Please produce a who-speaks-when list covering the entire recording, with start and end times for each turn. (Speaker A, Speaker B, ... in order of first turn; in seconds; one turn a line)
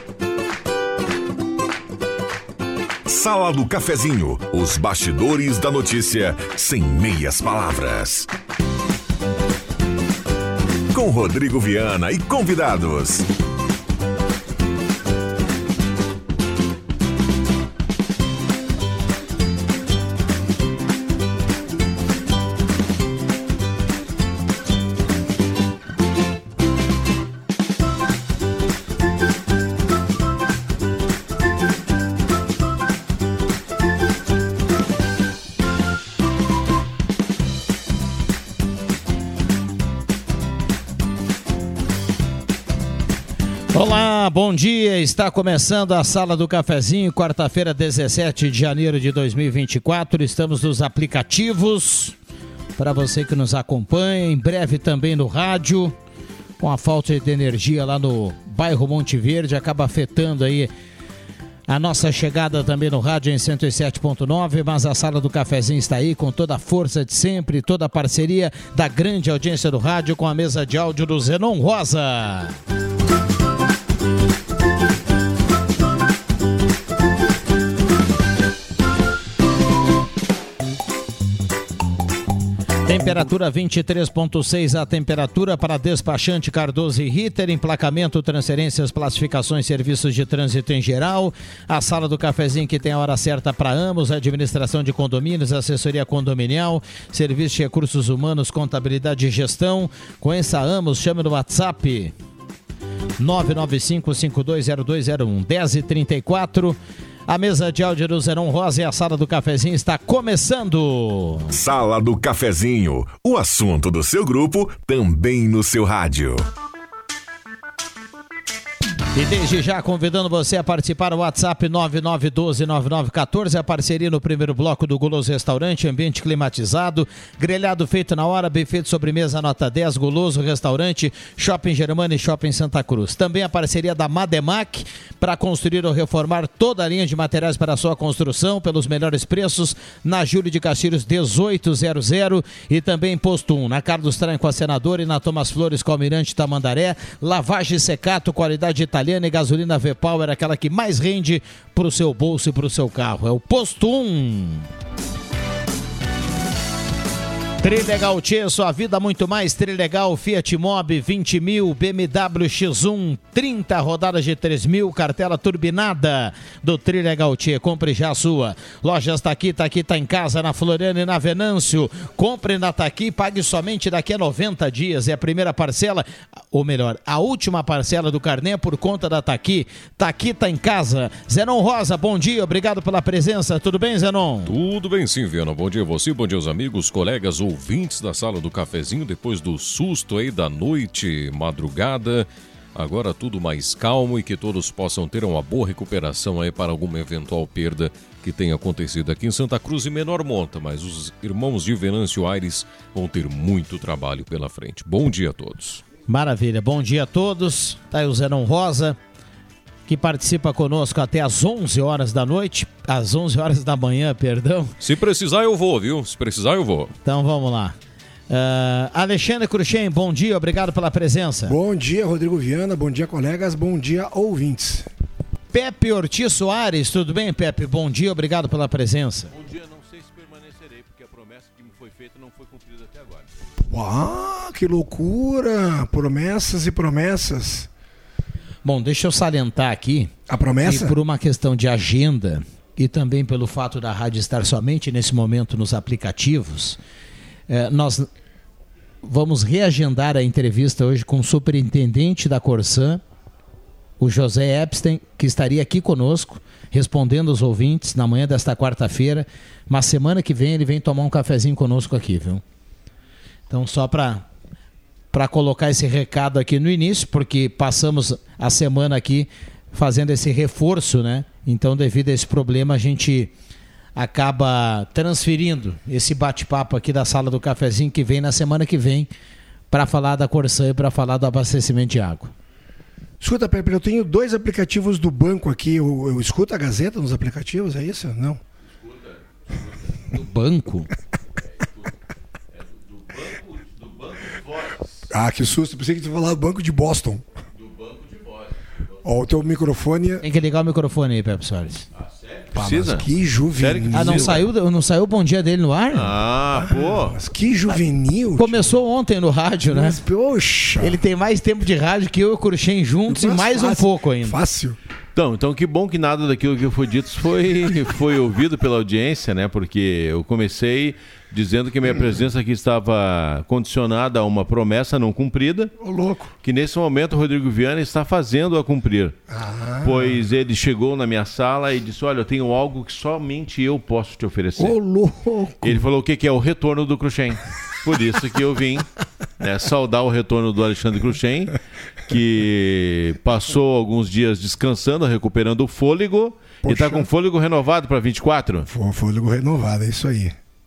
Speaker A: 3.1-8.3
Speaker A: 10.9-13.2
Speaker B: 43.7-52.2
Speaker B: 52.8-56.0
Speaker B: 56.6-60.7
Speaker B: 61.7-72.5
Speaker B: 82.9-102.2
Speaker B: 103.2-111.5
Speaker A: 111.5-116.5
Speaker B: 119.2-154.7
Speaker B: 157.6-184.5
Speaker C: 184.5-205.8
Speaker B: 206.1-209.0
Speaker B: 209.9-214.7
Speaker C: 214.8-216.9
Speaker B: 217.1-217.8
Speaker B: 218.3-221.6
Speaker D: 221.5-224.9
Speaker B: 225.5-229.3
Speaker E: 229.3-233.3
Speaker D: 233.7-237.7
Speaker B: 238.6-240.1
Speaker D: 240.3-240.9
Speaker B: 240.7-246.8
Speaker B: 247.5-248.1
Speaker B: 249.0-253.0
Speaker B: 254.0-262.4
Speaker B: 263.5-264.2
Speaker B: 265.1-273.3
Speaker B: 274.0-279.1
Speaker B: 279.7-282.3
Speaker D: 283.2-288.4
Speaker E: 288.8-290.0
Speaker B: 290.1-290.9
Speaker E: 291.6-291.9
Speaker E: 292.6-295.1
Speaker D: 295.1-297.2
Speaker E: 297.6-298.7
Speaker D: 299.0-300.2
Speaker B: 300.2-301.9
Speaker E: 302.0-304.4
Speaker D: 302.6-304.4
Speaker B: 303.9-306.1
Speaker E: 305.9-307.2
Speaker D: 306.5-308.8
Speaker B: 308.4-310.0
Speaker D: 309.7-311.0
Speaker B: 310.8-314.4
Speaker D: 313.1-314.8
Speaker E: 315.1-325.7
Speaker D: 325.8-326.3
Speaker E: 326.4-329.2
Speaker D: 329.3-330.2
Speaker E: 329.8-334.8
Speaker D: 334.6-335.8
Speaker E: 335.6-338.9
Speaker E: 339.4-341.6
Speaker E: 342.1-348.7
Speaker D: 346.6-347.1
Speaker D: 348.7-350.4